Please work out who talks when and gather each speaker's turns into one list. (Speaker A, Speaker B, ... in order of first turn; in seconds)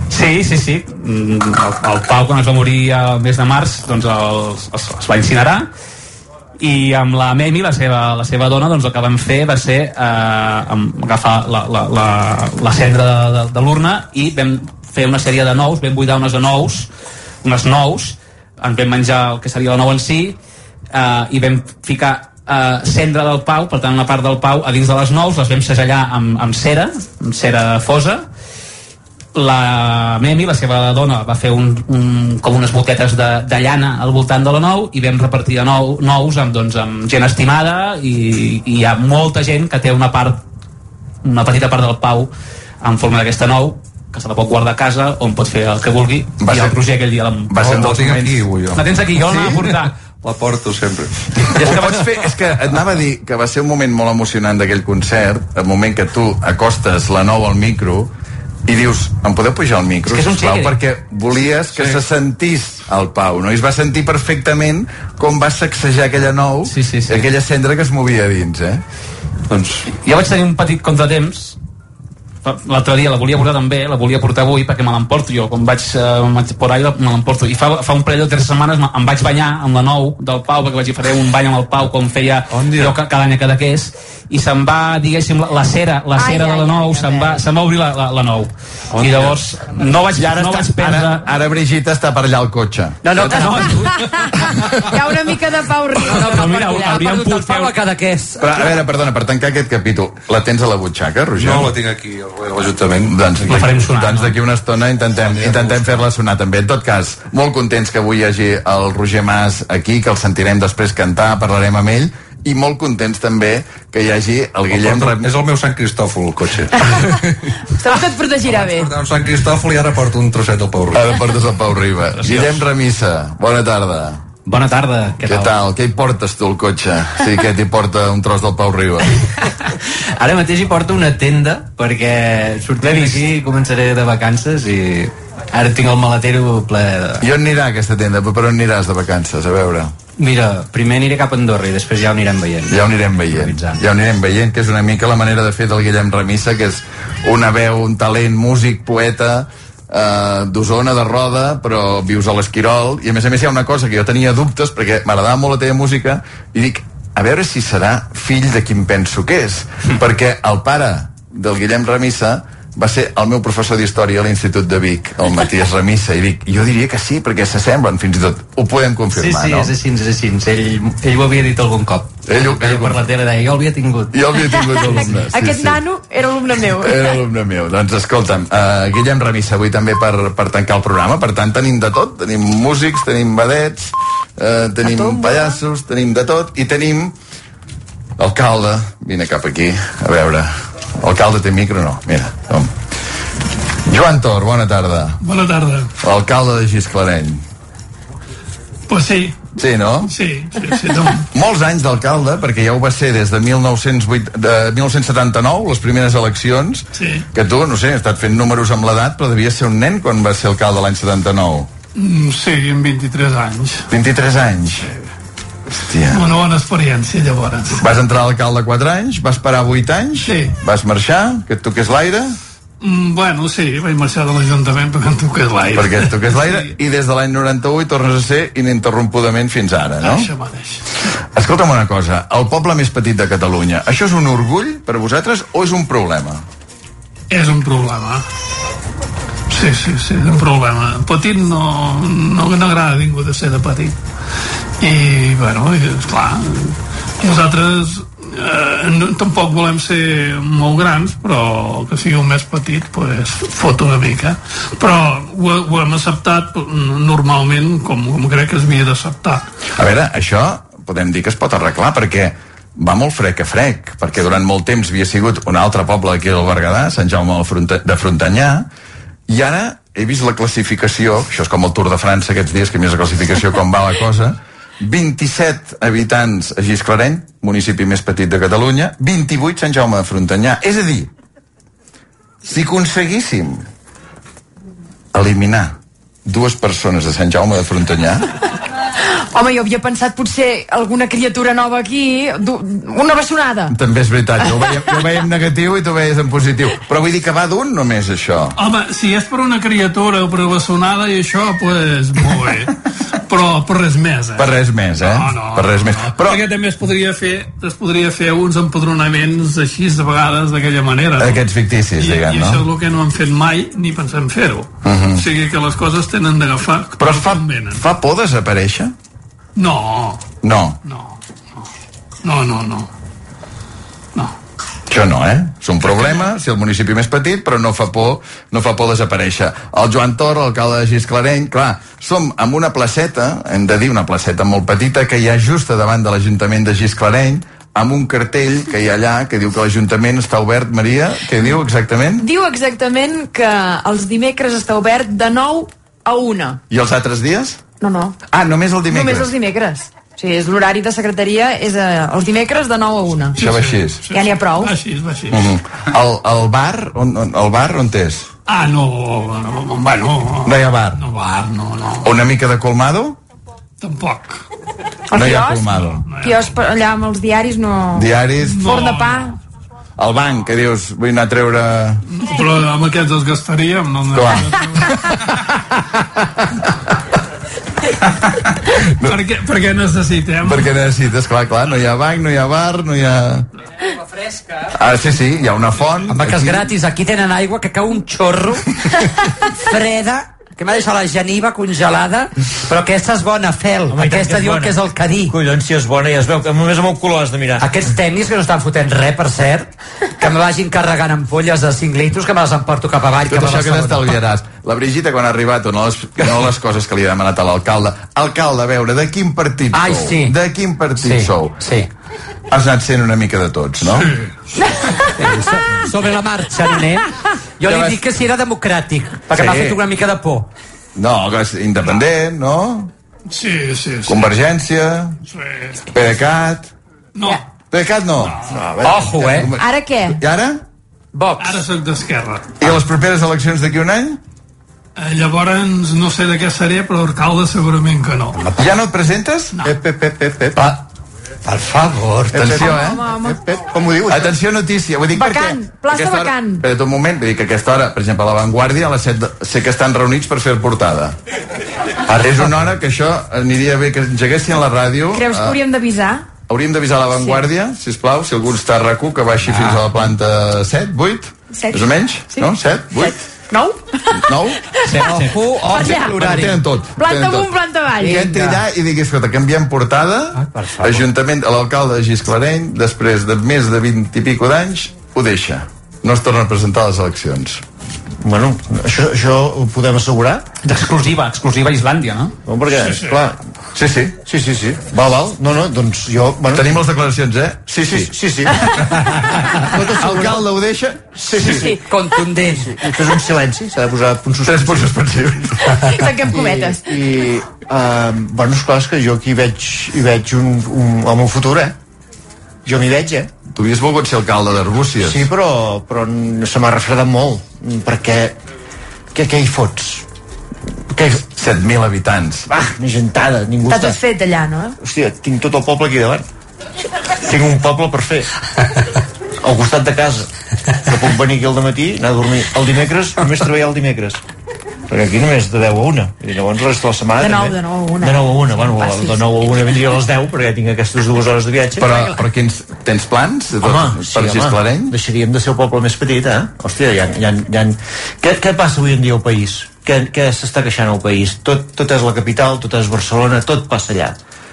Speaker A: 0.1-5.7, 6.6-16.9, 17.4-20.4, 20.9-28.3, 29.4-40.4, 41.2-47.5, 48.8-49.9, 51.6-52.0, 60.1-60.7, 66.7-67.2, 69.9-71.6, 72.4-91.2, 93.3-93.9, 96.1-97.7, 103.5-104.3, 464.9-465.4, 480.6-482.3
Speaker B: 46.4-46.8, 47.5-48.5, 51.5-58.1, 58.6-68.8, 90.1-93.6, 98.4-101.7, 103.1-115.3, 120.9-124.2, 125.2-129.1, 137.2-139.9, 142.7-169.7, 172.3-173.0, 174.1-175.8, 176.8-187.1, 188.2-192.8, 193.9-195.2, 196.0-197.4, 199.6-200.1, 201.3-211.7, 213.9-214.9, 215.7-216.3, 217.8-222.4, 225.7-230.3, 231.3-236.4, 259.7-268.7, 269.3-281.1, 282.4-283.6, 285.1-288.3, 293.7-298.6, 304.4-306.4, 311.2-312.6, 314.8-315.3, 317.0-318.9, 320.4-320.8, 324.9-342.3, 346.7-347.6, 348.3-349.3, 353.4-354.0, 355.3-358.3, 360.4-361.0, 362.0-363.2, 365.1-366.1, 367.9-368.7, 370.0-372.0, 374.1-375.2, 378.9-379.2, 380.4-383.5, 384.7-386.7, 403.3-411.6, 412.5-414.1, 417.6-418.0, 419.3-419.8, 421.0-422.9, 424.1-425.2, 425.9-426.7, 427.7-428.5, 429.2-430.6, 432.6-434.2, 438.6-439.6, 442.3-443.1, 444.1-451.2, 452.1-455.6, 456.5-463.2, 464.1-464.6, 465.8-477.6, 483.7-484.2, 486.5-488.1, 489.8-491.1, 494.4-495.7, 503.5-505.3, 511.3-512.5, 531.8-535.0
Speaker C: 47.6-51.8, 69.5-69.8, 82.5-83.0, 88.9-89.5, 101.4-103.8, 105.1-106.0, 114.7-117.3, 118.5-121.2
Speaker D: 86.2-87.4, 93.5-97.2, 117.8-118.9, 174.4-177.2, 184.8-185.6, 289.3-293.8, 342.2-346.6, 347.8-348.2, 348.9-353.4, 354.1-354.7, 365.1-369.4, 429.5-430.2, 442.4-443.4, 445.1-446.6, 455.1-456.3, 461.5-465.0, 465.7-466.4, 466.9-468.3, 491.4-492.2, 495.7-496.9, 513.7-514.8, 527.2-529.3
Speaker E: 93.0-93.8, 96.1-98.6, 386.1-388.6, 389.6-395.4, 397.6-404.1, 409.7-410.4, 411.0-411.9, 415.2-417.1, 417.6-420.5, 428.8-429.5, 431.1-431.6, 441.4-442.4, 465.1-466.6, 468.0-468.6, 470.4-471.1, 490.1-490.4, 491.4-492.8
Speaker F: 124.5-125.5, 130.2-137.2, 140.2-143.8, 169.1-174.2, 174.8-175.1
Speaker G: 195.2-195.9, 198.9-199.4, 200.1-201.3, 207.0-207.3, 212.0-213.9, 216.1-217.8, 220.3-220.6, 222.8-226.7, 230.0-230.8, 237.3-238.2, 239.5-244.0, 244.8-259.4, 298.6-302.8, 303.3-304.5, 305.0-311.4, 312.0-317.8, 319.6-320.2, 320.9-321.6, 322.2-322.9, 325.8-326.2, 353.4-355.5, 358.5-362.1, 363.8-364.4, 366.1-366.4, 368.4-369.3, 372.1-374.9, 379.0-380.7, 413.9-414.4, 423.3-424.3, 425.3-425.8, 427.1-427.4, 431.4-432.5, 435.0-438.4, 482.8-483.1
Speaker H: 393.9-394.8, 395.3-397.7, 428.5-429.1, 439.6-440.7, 442.3-442.6, 443.2-444.3, 478.2-480.4, 482.4-483.4, 484.2-486.8, 487.8-488.6, 489.6-490.4, 491.1-491.8, 492.4-494.9, 496.3-501.7, 502.6-503.3, 505.0-508.4, 509.1-510.1, 510.9-511.2, 512.5-514.0, 514.8-516.2, 517.2-518.3, 519.4-520.3, 520.9-524.2, 524.9-531.9, 533.6-544.2